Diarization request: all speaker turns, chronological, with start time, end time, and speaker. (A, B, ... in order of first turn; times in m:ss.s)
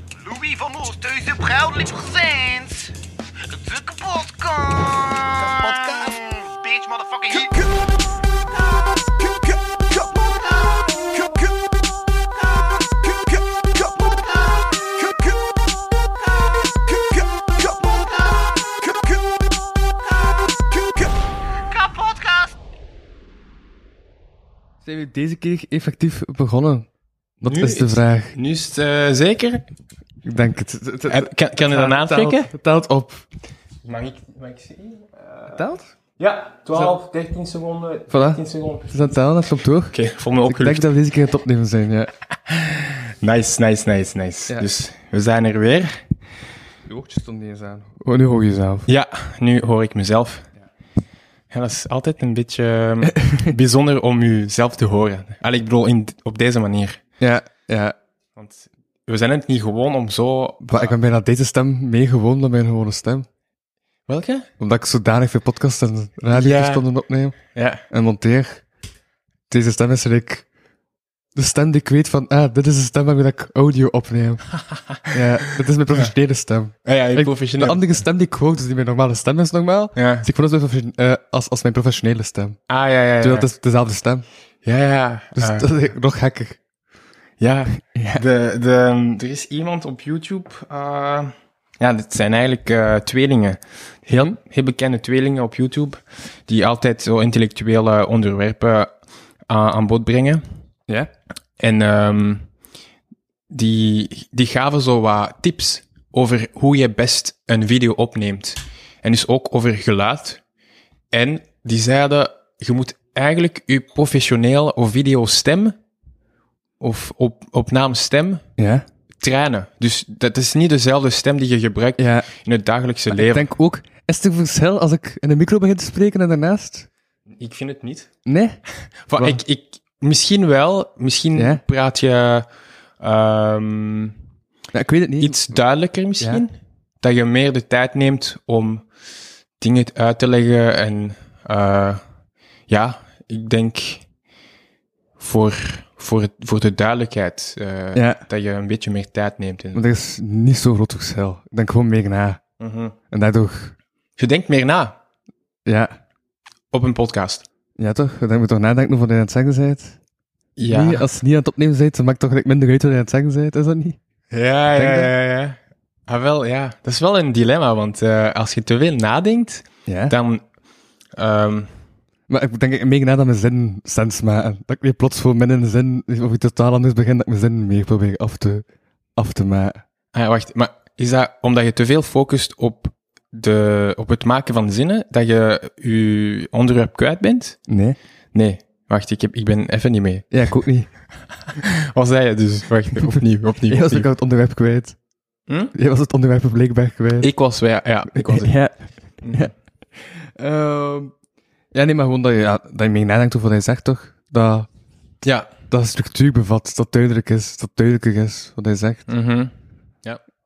0:00.2-0:02.9 A
0:03.5-0:07.7 A
0:09.7-0:11.7 A
0:12.2-0:15.4 A
0:16.2-0:19.2 A
0:20.1-0:22.5 A
0:24.8-0:26.9 B
0:27.4-0:28.3 B
0:27.5-0:29.6 C
0:30.2-0:33.3 B
0:31.1-0:32.5 C
0:33.8-0:35.6 C
0:35.5-0:35.9 B
0:36.2-0:39.0 C
0:38.1-0:39.9 B
0:39.9-0:40.9 C
0:40.5-0:42.1 B
0:42.5-0:46.0 C
0:46.8-0:48.9 B
0:48.9-0:50.5 C
0:51.5-0:57.0 C
0:53.1-0:53.5 B
0:57.2-0:58.0 B
0:58.4-1:00.9 C
1:00.6-1:03.3 B
1:04.1-1:04.5 C
1:04.6-1:07.4 B
1:06.3-1:06.8 C
1:07.5-1:07.8 C
1:07.9-1:08.6 B
1:09.5-1:10.5 B
1:11.4-1:14.4 B
1:15.1-1:22.6 B
1:16.9-1:18.0 C
1:20.0-1:20.3 C
1:22.7-1:23.5 C
1:23.2-1:24.3 B
1:24.6-1:25.7 C
1:25.4-1:26.6 B
1:27.4-1:38.9 C
1:27.9-1:28.2 B
1:39.5-1:40.4 C
1:41.6-1:42.4 C
1:43.5-1:50.4 C
1:51.1-1:55.8 C
1:56.8-1:58.4 C
1:58.6-1:58.9 B
1:59.2-2:03.5 C
2:02.0-2:02.3 B
2:03.1-2:06.9 B
2:07.4-2:08.1 C
2:08.3-2:08.6 B
2:09.1-2:12.5 C
2:11.4-2:11.6 B
2:13.0-2:14.1 C
2:14.7-2:15.4 B
2:15.2-2:16.5 C
2:17.0-2:18.8 C
2:19.6-2:22.0 C
2:22.7-2:24.0 C
2:25.2-2:29.8 C
2:28.0-2:28.2 B
2:29.8-2:32.4 B
2:32.6-2:33.0 C
2:33.1-2:33.8 B
2:34.2-2:35.0 C
2:35.7-2:35.9 B
2:36.7-2:37.4 C
2:37.8-2:40.0 B
2:40.6-2:41.1 C
2:40.7-2:44.0 B
2:44.3-2:50.4 C
2:44.8-2:45.1 B
2:49.9-2:50.2 B
2:51.2-2:51.7 C
2:52.3-2:58.6 B
2:59.2-2:59.8 B
3:00.1-3:07.6 C
3:07.7-3:08.0 B
3:08.3-3:10.3 C
3:10.3-3:10.9 B
3:11.6-3:14.1 C
3:13.7-3:15.0 B
3:15.5-3:15.7 C
3:15.7-3:17.3 B
3:17.2-3:18.6 C
3:18.1-3:18.8 B
3:19.2-3:19.5 C
3:20.4-3:21.1 B
3:21.7-3:24.7 B
3:25.2-3:25.5 C
3:25.7-3:29.1 B
3:29.1-3:29.5 C